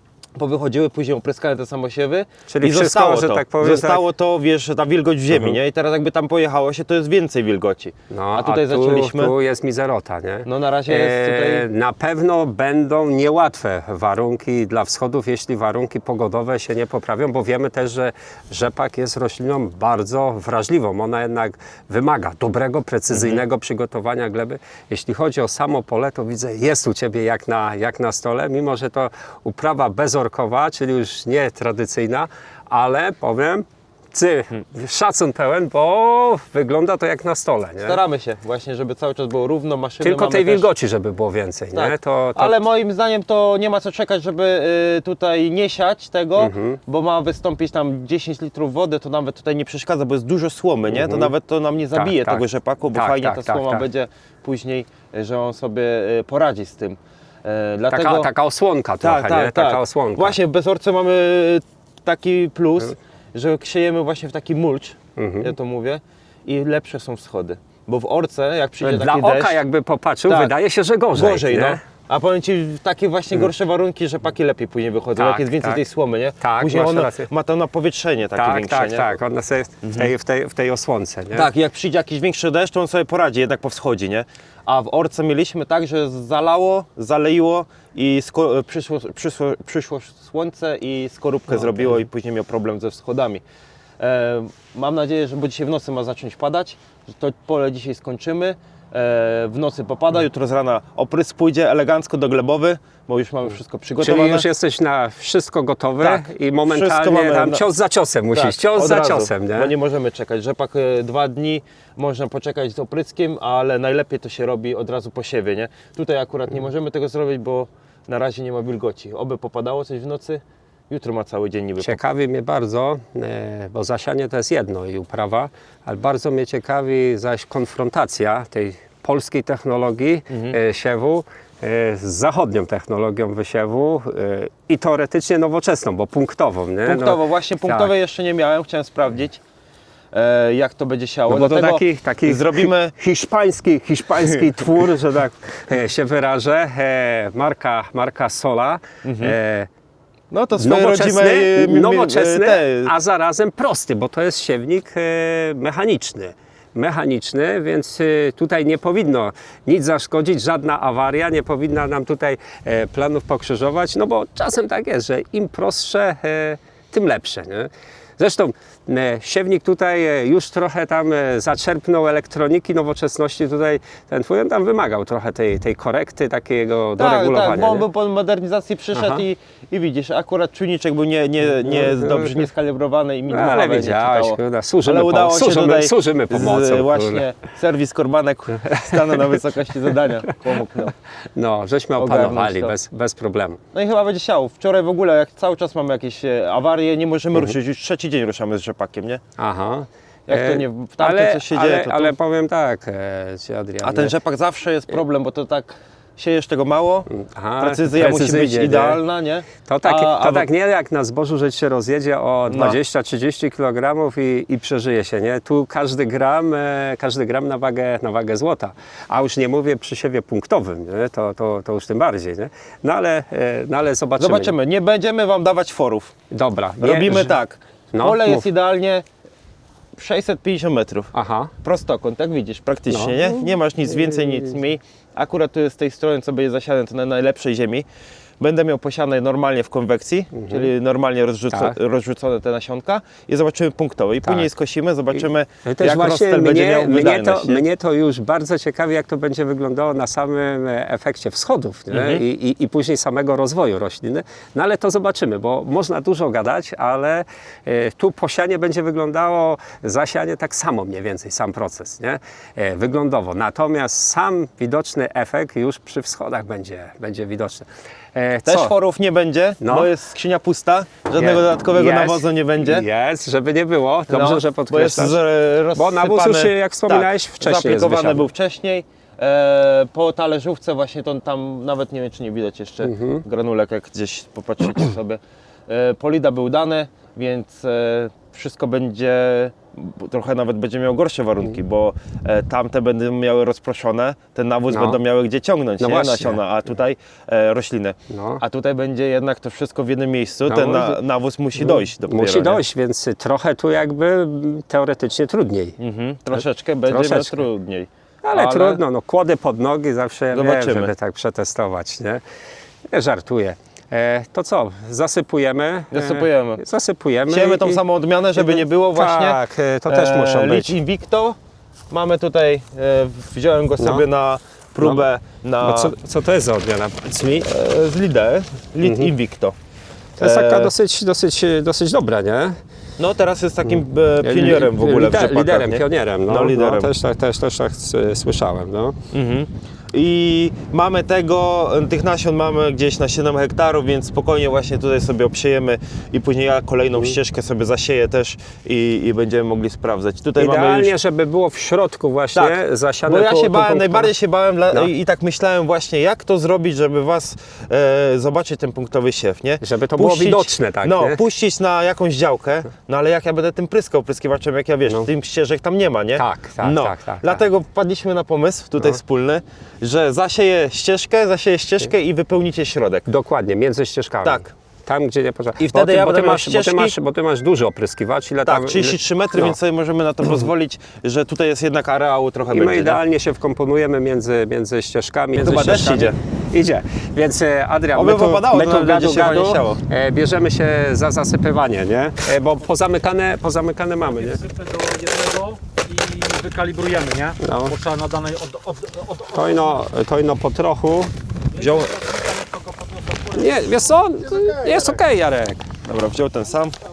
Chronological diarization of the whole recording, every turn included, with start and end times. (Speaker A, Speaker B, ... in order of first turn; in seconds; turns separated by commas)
Speaker A: 0.3-9.3, Speaker B: 2.5-4.0, Speaker B: 8.1-38.0, Speaker A: 10.4-11.7, Speaker A: 23.1-23.4, Speaker A: 37.8-40.7, Speaker B: 40.0-42.6, Speaker A: 41.7-58.3, Speaker B: 46.4-46.8, Speaker B: 50.9-51.3, Speaker B: 51.9-53.9, Speaker B: 57.9-60.4, Speaker A: 59.0-69.6, Speaker B: 65.2-65.5, Speaker B: 68.8-71.8, Speaker A: 70.3-70.5, Speaker A: 71.1-79.1, Speaker B: 75.2-75.8, Speaker B: 76.4-77.3, Speaker B: 78.3-81.5, Speaker A: 79.8-80.1, Speaker A: 81.3-93.4, Speaker B: 91.5-91.9, Speaker A: 94.0-104.5, Speaker B: 104.0-109.7, Speaker A: 106.0-107.6, Speaker A: 108.3-122.0, Speaker B: 121.8-137.9, Speaker A: 130.3-130.6, Speaker A: 136.8-139.4, Speaker A: 140.1-142.9, Speaker B: 141.3-149.7, Speaker A: 149.0-149.3, Speaker A: 150.3-152.9, Speaker B: 150.6-177.8, Speaker A: 177.0-190.9, Speaker B: 178.9-179.2, Speaker B: 181.6-182.4, Speaker B: 183.3-187.2, Speaker B: 188.8-189.3, Speaker B: 191.3-193.6, Speaker A: 192.0-192.7, Speaker A: 193.7-199.2, Speaker B: 199.4-204.1, Speaker A: 200.3-202.1, Speaker A: 203.8-210.5, Speaker B: 207.1-209.0, Speaker B: 209.7-224.5, Speaker A: 212.5-212.8, Speaker A: 224.2-226.1, Speaker B: 226.3-227.3, Speaker A: 226.8-229.0, Speaker B: 227.9-228.4, Speaker A: 229.9-231.1, Speaker B: 231.1-231.5, Speaker A: 231.6-237.8, Speaker B: 232.9-234.5, Speaker A: 238.4-247.6, Speaker B: 240.3-240.6, Speaker B: 241.5-241.8, Speaker B: 244.2-244.5, Speaker B: 245.6-268.7, Speaker A: 251.9-252.2, Speaker A: 268.4-272.9, Speaker B: 269.6-269.9, Speaker B: 271.2-275.2, Speaker A: 274.1-302.6, Speaker B: 275.7-278.2, Speaker B: 282.8-283.2, Speaker B: 294.7-295.0, Speaker B: 295.8-296.4, Speaker B: 298.1-298.4, Speaker B: 300.4-301.0, Speaker B: 301.6-305.8, Speaker A: 305.8-308.8, Speaker B: 306.9-307.4, Speaker B: 308.2-312.2, Speaker A: 310.3-310.9, Speaker B: 312.9-317.8, Speaker A: 315.9-316.6, Speaker A: 317.3-321.4, Speaker B: 318.4-320.7, Speaker A: 321.9-325.9, Speaker B: 323.8-324.0, Speaker B: 324.8-325.0, Speaker B: 325.6-327.5, Speaker A: 327.4-329.5, Speaker B: 328.8-329.1, Speaker B: 330.2-332.6, Speaker A: 330.2-330.7, Speaker A: 333.0-336.9, Speaker B: 334.2-339.0, Speaker A: 339.1-350.9, Speaker B: 350.4-354.1, Speaker A: 352.3-373.1, Speaker B: 359.6-361.2, Speaker B: 366.2-367.4, Speaker B: 373.1-379.5, Speaker A: 374.2-374.5, Speaker A: 375.6-376.9, Speaker A: 378.4-383.0, Speaker B: 382.5-394.4, Speaker A: 385.4-386.2, Speaker A: 387.9-389.8, Speaker C: 394.1-399.6, Speaker B: 397.4-397.8, Speaker B: 399.3-401.1, Speaker A: 401.5-402.0, Speaker C: 401.6-403.5, Speaker B: 403.3-405.7, Speaker A: 405.8-406.8